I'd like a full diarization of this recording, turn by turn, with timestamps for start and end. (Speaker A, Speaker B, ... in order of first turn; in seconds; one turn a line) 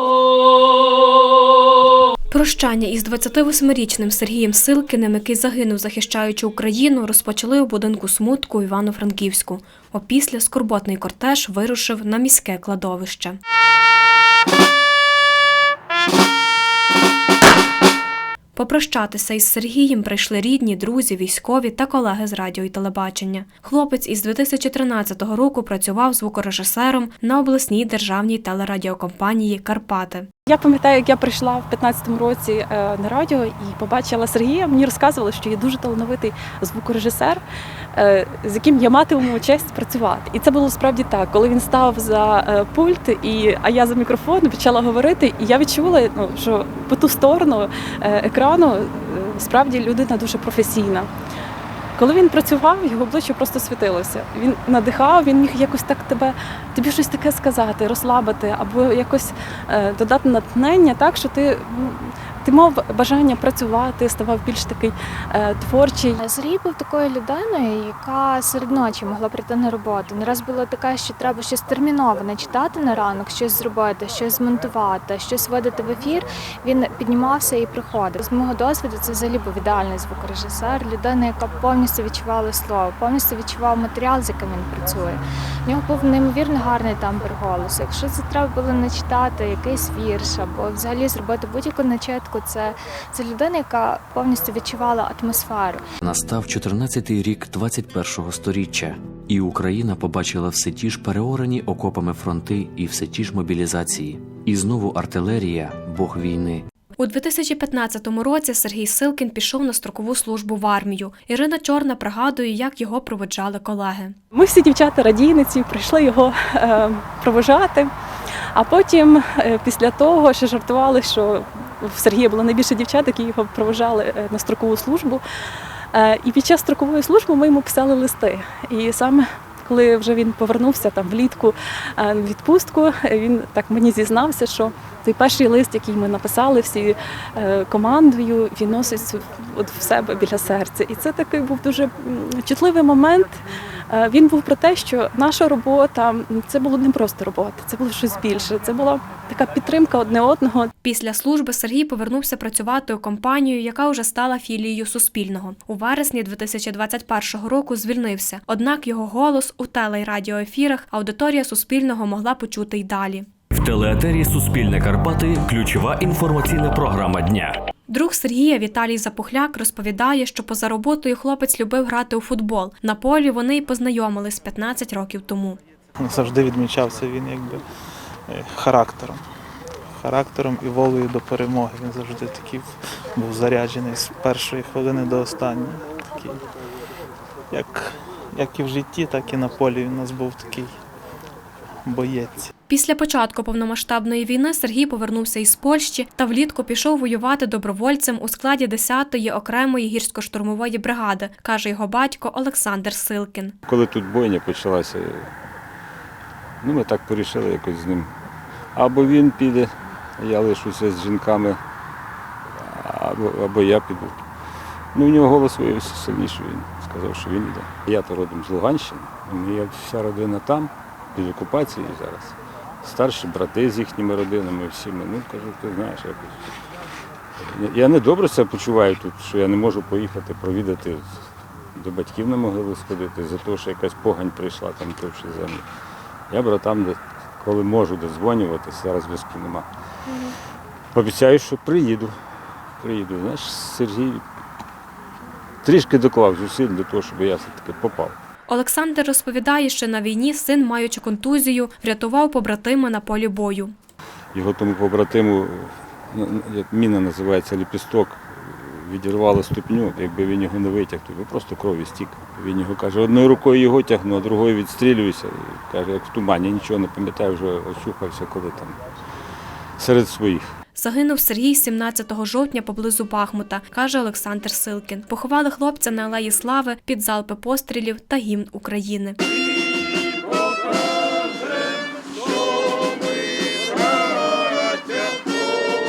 Speaker A: 2.3-13.4
Speaker A: 18.5-30.3
Speaker B: 30.5-37.4
Speaker B: 38.0-51.1
Speaker B: 52.0-66.2
Speaker C: 66.2-95.8
Speaker D: 96.0-106.7
Speaker A: 107.0-114.2
Speaker B: 114.3-117.9
Speaker B: 118.5-125.2
Speaker B: 125.9-143.3
Speaker B: 143.9-150.7
Speaker A: 150.8-163.3
Speaker E: 163.7-167.5
Speaker A: 167.9-175.6
Speaker F: 176.0-177.6
Speaker F: 178.3-179.2
Speaker F: 180.0-186.4
Speaker F: 187.5-190.7
Speaker F: 191.8-192.5
Speaker A: 192.7-203.6
Speaker G: 203.7-205.3
Speaker G: 206.6-208.1
Speaker G: 208.8-211.6
Speaker G: 212.6-214.1
Speaker G: 214.9-226.4
Speaker G: 227.4-231.2
Speaker G: 231.7-235.6
Speaker G: 236.3-239.7
Speaker G: 240.9-242.1
Speaker G: 242.8-244.2
Speaker G: 245.6-248.2
Speaker A: 248.5-253.7
Speaker G: 254.3-268.8
Speaker G: 269.8-270.5
Speaker A: 270.7-279.2